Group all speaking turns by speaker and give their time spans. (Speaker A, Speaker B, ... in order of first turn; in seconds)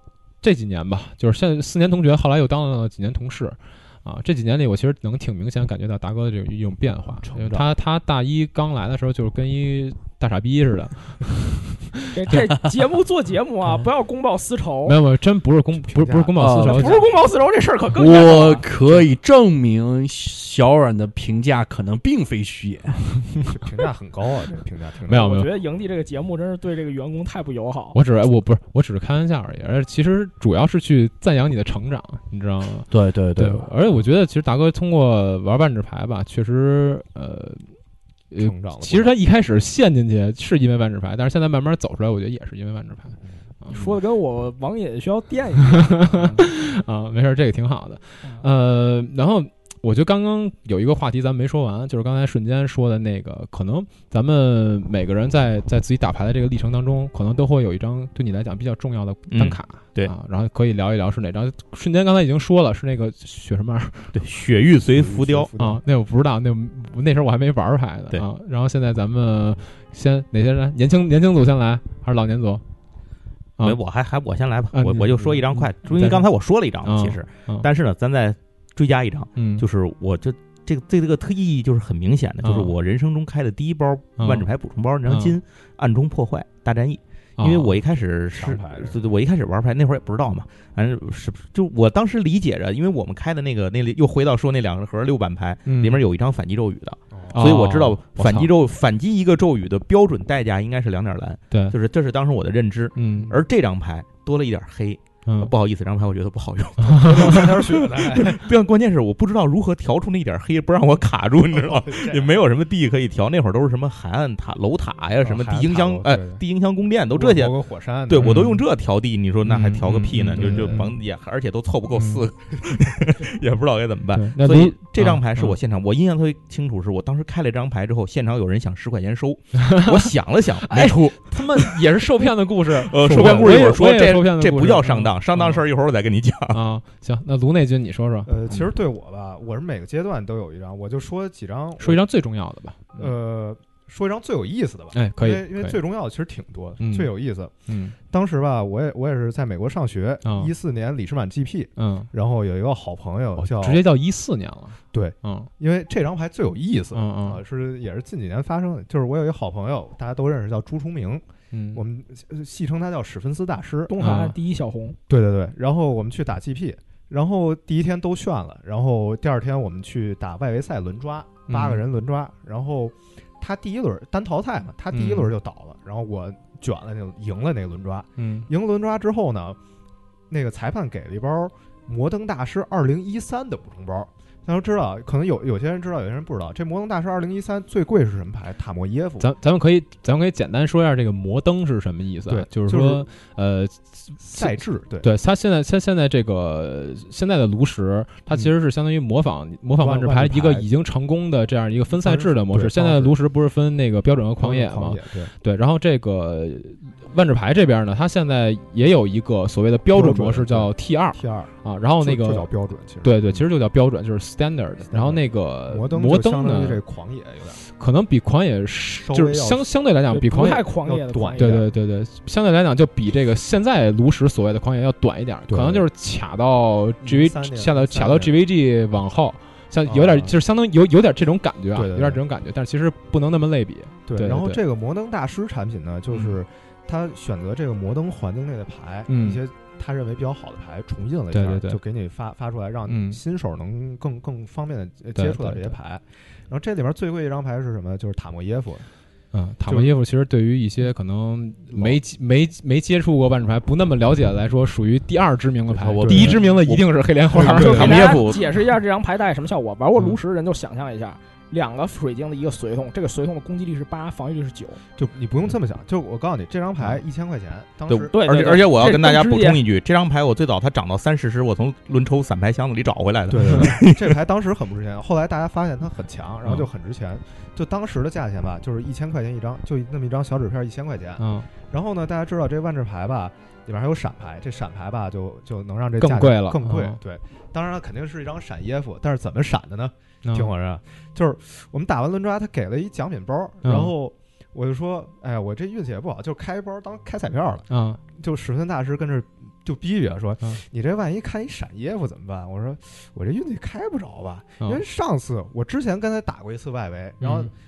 Speaker A: 0.4-12.5, 14.8-17.1, 25.1-25.5, 27.9-37.7, 38.3-44.0, 45.6-64.2, 65.5-72.6, 74.7-76.2, 76.8-77.7, 79.3-79.7, 82.4-82.7, 84.2-84.5, 85.0-85.4, 87.4-87.7, 95.7-96.0, 97.3-98.5, 101.5-101.8, 103.0-103.4, 105.2-105.5, 106.9-107.5, 118.2-118.6, 119.4-120.9, 121.9-122.2, 124.1-125.6, 129.5-135.6, 136.5-138.7, 141.8-143.1, 144.9-145.8, 146.8-147.1, 147.7-147.9, 150.2-150.5, 151.8-152.1, 153.4-155.5, 156.9-157.4, 161.5-161.8, 164.0-164.3, 171.5-171.8, 174.9-175.3, 178.2-178.5, 189.2-212.5, 213.0-216.8, 217.7-220.7, 221.4-234.6, 236.1-236.4, 239.1-239.4, 241.3-241.8, 242.9-243.2, 245.2-245.7, 249.3-258.2, 281.2-281.5, 286.0-287.0, 290.2-290.5, 293.6-293.9, 297.7-298.0, 307.2-307.5
Speaker B: 7.2-7.7, 15.8-16.4, 23.5-25.3, 38.4-39.1, 64.9-65.8, 88.3-89.0, 97.1-97.6, 106.8-108.5, 111.5-112.4, 115.2-116.4, 117.1-118.5, 120.3-120.9, 133.2-133.5, 138.2-142.0, 142.9-147.5, 148.1-153.8, 154.9-163.9, 165.1-179.6, 180.3-189.3, 192.3-193.1, 194.2-195.1, 199.8-200.7, 201.9-203.2, 204.4-205.3, 209.9-213.4, 214.9-217.6, 219.0-219.7, 220.8-221.7, 225.5-225.9, 227.0-228.3, 229.8-230.3, 231.7-232.2, 234.1-248.9, 249.7-250.0, 251.7-252.0, 256.0-256.4, 257.3-258.1, 265.0-268.1, 273.3-307.5
Speaker C: 12.1-15.0, 16.6-18.6, 25.1-28.0, 43.7-46.5, 163.9-165.0, 220.1-221.7, 257.5-264.8, 268.1-269.6
Speaker D: 16.4-16.9, 17.9-23.0, 32.9-33.6, 255.7-256.9, 257.4-258.4
Speaker E: 59.3-60.1, 64.1-65.5, 73.6-117.5, 118.1-131.8, 132.7-136.6, 267.9-274.1